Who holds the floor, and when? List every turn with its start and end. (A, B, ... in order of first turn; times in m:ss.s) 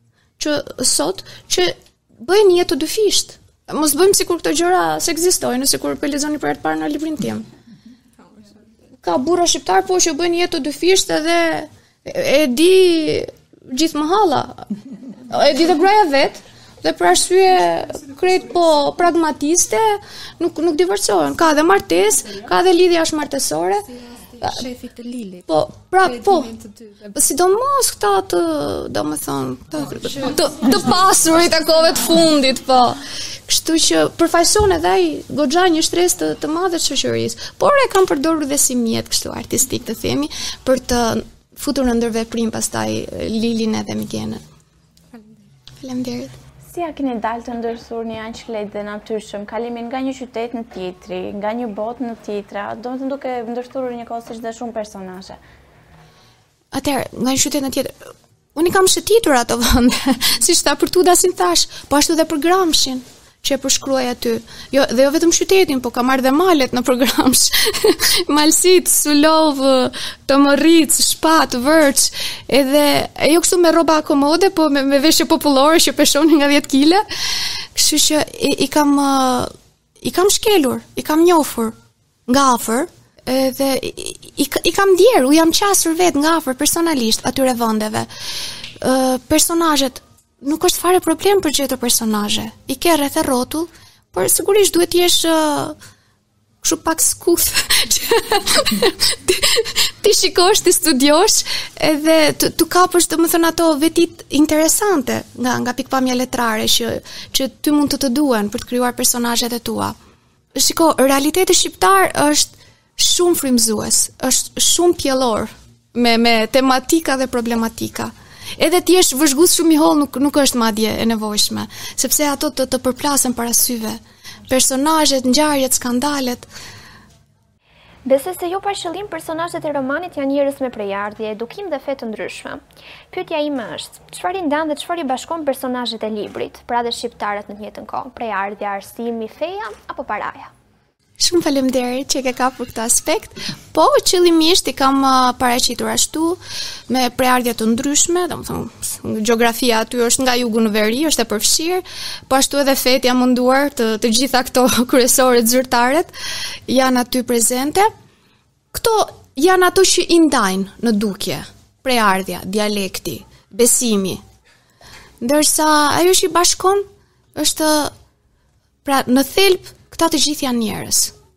0:00.4-0:07.4 A
0:09.0-0:14.7 A
0:15.3-0:23.9 A
0:23.9-0:25.5 B
0:25.5-0:26.5 A
0:26.0-0:27.1 B
0:27.1-0:44.4 A
0:45.1-0:45.4 B
0:45.8-0:46.3 A
0:46.7-0:55.4 C
0:56.7-0:57.9 A
0:58.6-1:21.8 A
1:22.3-1:28.1 A
1:28.8-1:35.8 A
1:36.6-1:50.0 A
1:50.6-2:06.5 A
2:08.0-2:20.5 D
2:21.2-2:36.1 A
2:36.7-2:37.9 A
2:38.7-2:44.2 A
2:45.2-2:47.9 A
2:48.8-2:51.1 A